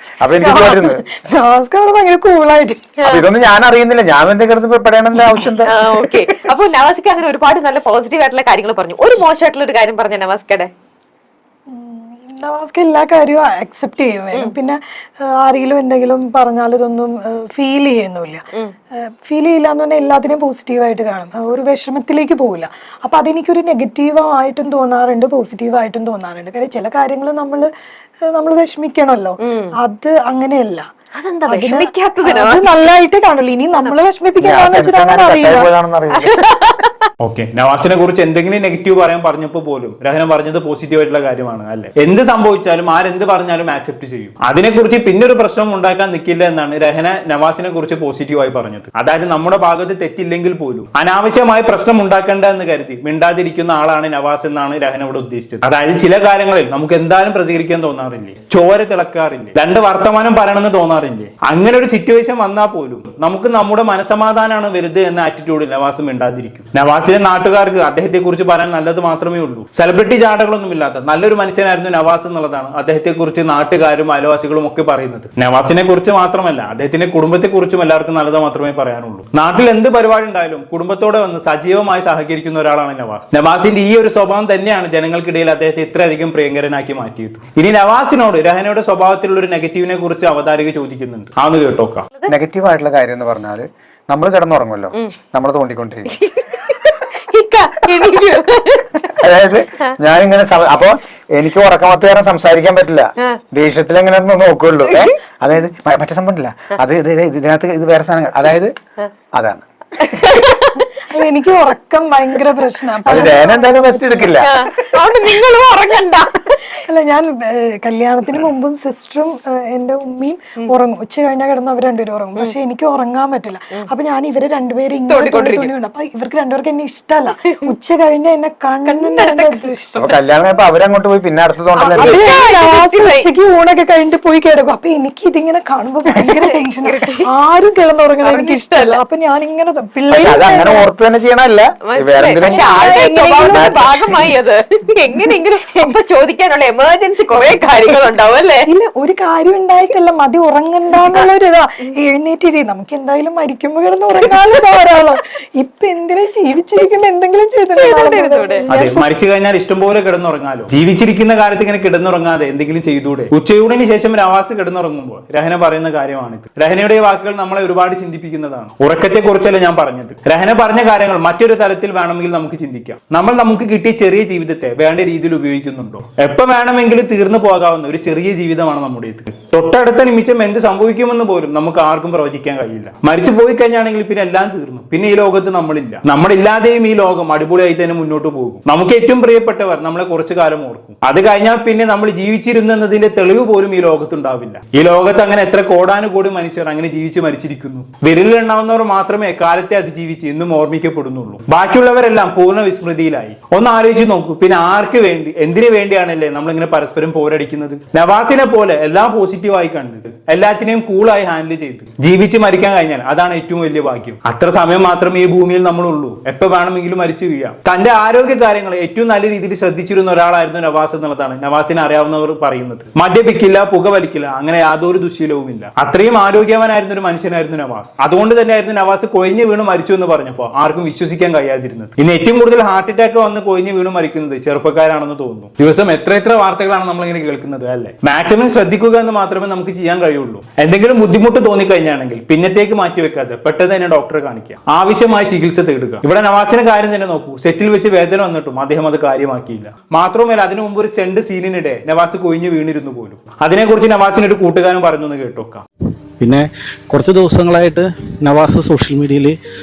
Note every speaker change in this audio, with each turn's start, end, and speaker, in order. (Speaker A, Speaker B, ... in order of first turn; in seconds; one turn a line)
Speaker A: 0.2-1.0
Speaker B: 0.4-2.9
Speaker A: 3.0-5.8
Speaker C: 5.7-10.7
Speaker B: 11.7-18.4
Speaker B: 18.9-27.7
Speaker B: 28.2-30.9
Speaker C: 29.4-29.7
Speaker C: 31.1-32.7
Speaker B: 31.5-35.7
Speaker A: 34.4-36.4
Speaker C: 36.1-37.0
Speaker D: 37.2-92.1
Speaker A: 92.3-96.2
Speaker C: 96.2-99.1
Speaker A: 99.2-108.7
Speaker A: 109.3-109.7
Speaker C: 110.0-110.8
Speaker B: 110.9-114.3
Speaker A: 113.0-114.7
Speaker C: 113.1-113.3
Speaker C: 114.3-116.5
Speaker B: 116.7-130.1
Speaker C: 125.1-125.7
Speaker C: 127.4-127.7
Speaker C: 128.8-130.1
Speaker A: 130.0-132.3
Speaker C: 131.8-133.3
Speaker B: 131.9-140.9
Speaker C: 136.3-137.2
Speaker C: 138.2-139.0
Speaker A: 140.1-142.9
Speaker C: 141.8-148.7
Speaker B: 142.4-144.3
Speaker A: 143.5-143.8
Speaker B: 148.7-159.1
Speaker C: 157.8-158.6
Speaker D: 158.7-255.6
Speaker E: 256.2-259.4